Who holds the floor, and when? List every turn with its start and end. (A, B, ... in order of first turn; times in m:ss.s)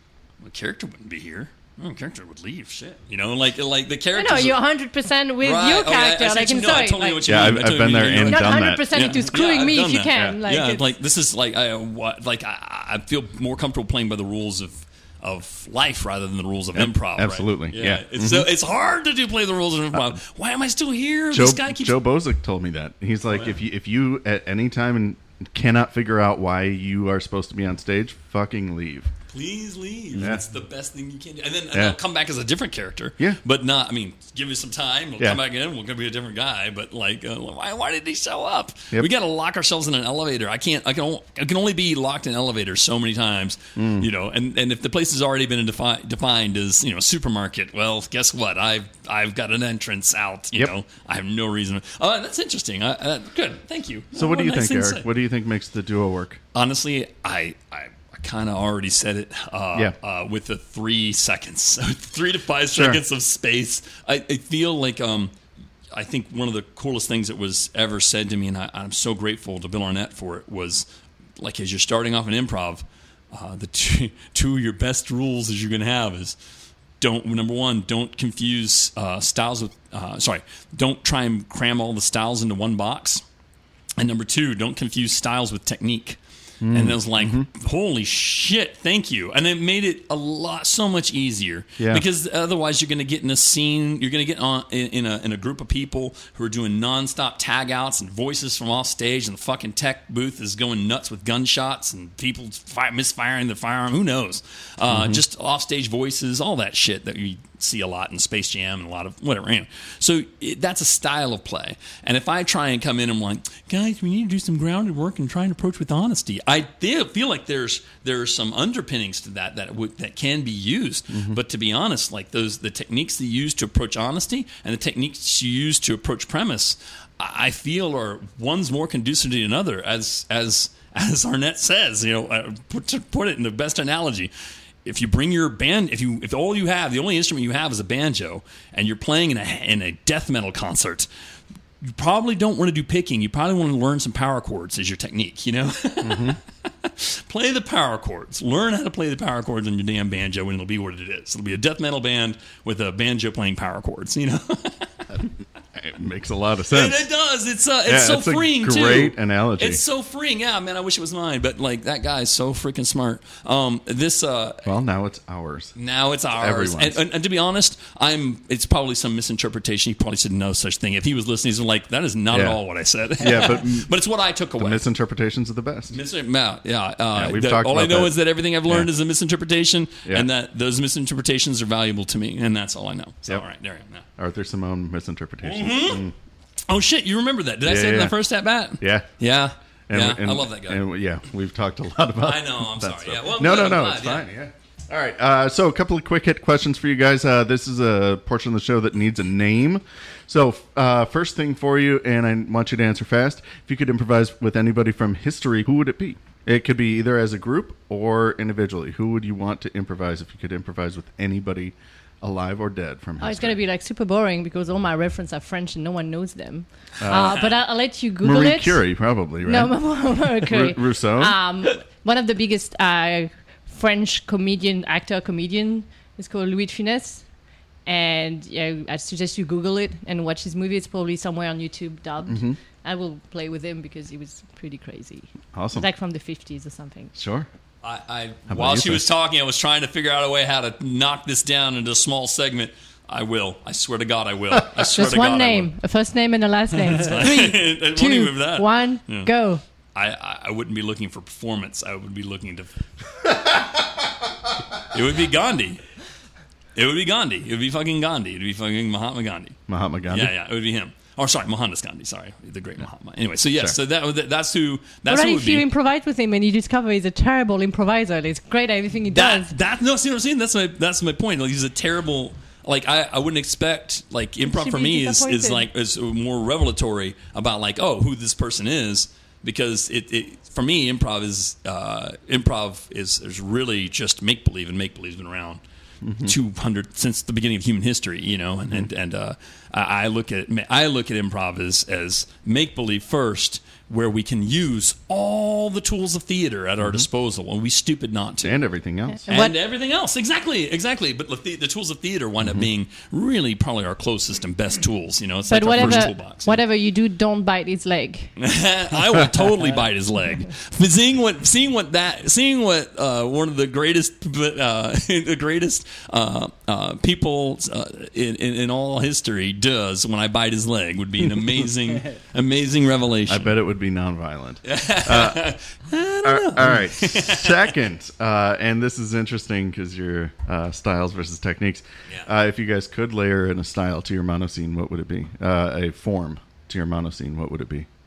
0:00.4-0:04.6 A
0:04.1-0:07.5 B
0:05.4-0:22.0 A
0:07.2-0:08.8 C
0:08.2-0:10.9 B
0:16.7-0:18.5 C
0:21.3-0:29.1 C
0:29.3-0:55.0 A
0:30.2-0:30.4 C
0:43.8-0:44.1 C
0:54.1-0:56.4 C
0:56.5-1:05.3 A
1:02.7-1:03.0 C
1:05.9-1:10.8 A
1:11.4-1:16.4 A
1:17.0-1:23.2 A
1:24.0-1:26.2 A
1:26.6-1:27.4 C
1:26.7-2:14.3 A
1:31.8-1:32.0 C
1:44.9-1:45.2 C
2:01.1-2:01.4 C
2:14.8-2:21.1 A
2:21.8-2:35.1 A
2:26.0-2:26.4 C
2:35.7-2:37.0 C
2:36.7-2:44.7 A
2:37.8-2:39.8 C
2:44.6-2:45.7 C
2:45.8-2:54.8 A
2:46.3-2:47.0 C
2:52.3-2:52.6 C
2:53.2-2:53.9 C
2:54.6-2:56.0 C
2:55.9-3:04.0 A
2:57.1-2:58.1 C
3:04.2-3:06.1 C
3:05.4-3:06.1 A
3:06.7-3:10.8 A
3:07.6-3:08.1 C
3:08.8-3:09.1 C
3:09.9-3:33.6 C
3:12.2-3:14.2 A
3:33.2-3:38.8 B
3:37.0-3:37.4 C
3:37.0-3:37.5 A
3:38.2-3:39.7 C
3:39.4-3:47.2 B
3:40.4-3:41.4 C
3:47.8-3:57.1 B
3:52.2-3:52.6 C
3:55.5-3:55.9 C
3:57.1-3:57.5 C
3:57.8-4:05.7 A
3:58.5-3:59.0 C
4:04.9-4:09.6 B
4:06.8-4:09.3 A
4:09.9-4:12.8 A
4:14.9-4:15.8 A
4:16.7-4:19.6 A
4:19.7-4:20.3 C
4:20.1-4:25.7 A
4:25.1-4:29.5 B
4:29.1-4:45.6 A
4:34.4-4:35.7 B
4:46.0-4:46.4 C
4:46.2-4:58.6 A
4:56.8-4:57.0 C
4:58.4-4:59.2 C
4:59.2-4:59.6 B
4:59.3-5:06.6 A
5:05.5-5:08.3 B
5:05.8-5:06.1 C
5:08.4-5:23.5 A
5:23.3-5:25.4 C
5:24.6-5:27.7 A
5:26.2-5:37.9 C